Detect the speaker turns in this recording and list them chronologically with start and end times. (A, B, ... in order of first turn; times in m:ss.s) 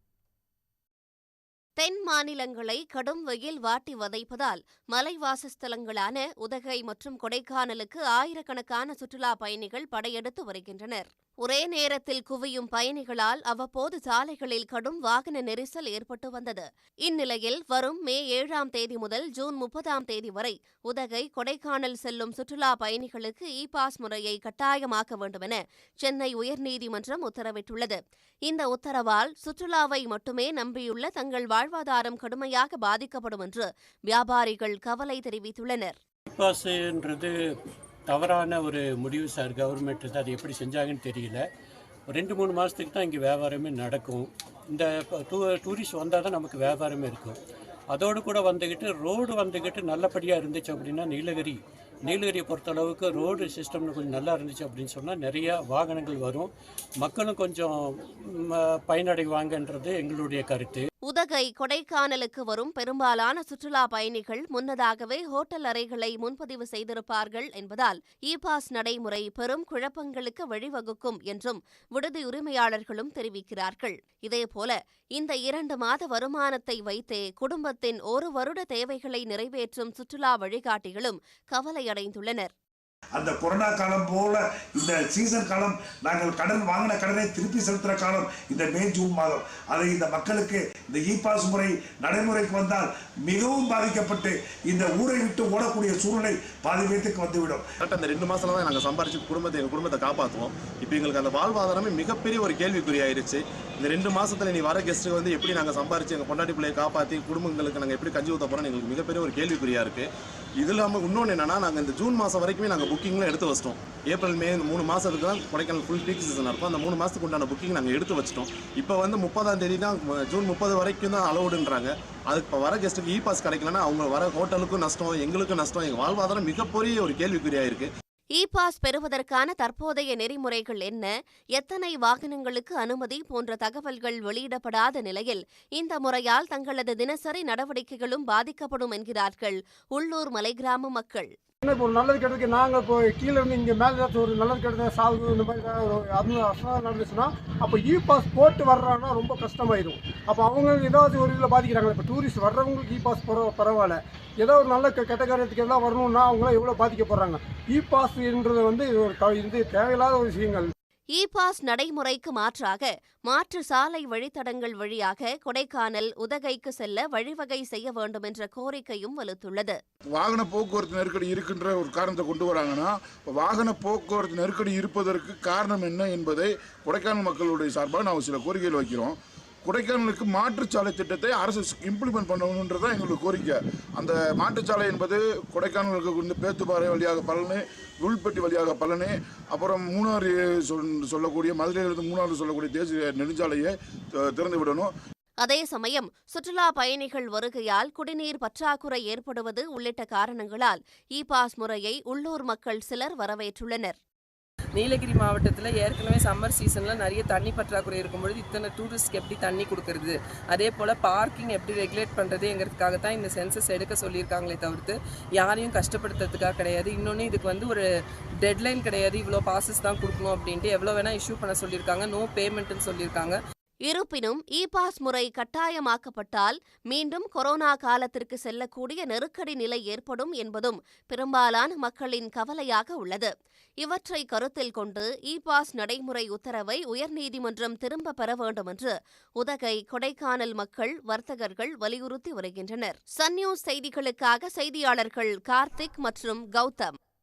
0:01.8-0:36.0 A
0:36.3-0:37.4 B
0:38.1-0:41.4 B
0:42.1-0:47.4 B
0:47.9-0:57.8 B
0:58.5-1:00.9 B
1:01.1-1:22.5 A
1:23.2-1:37.7 C
1:37.8-1:50.0 D
1:50.6-2:07.9 D
2:08.4-2:21.3 A
2:21.6-2:40.7 E
2:41.2-2:49.8 A
2:50.2-3:13.7 F
3:14.3-3:14.9 F
3:15.4-3:24.0 A
3:24.8-3:37.9 G
3:38.4-3:43.4 G
3:43.9-3:53.3 A
3:53.8-4:06.9 A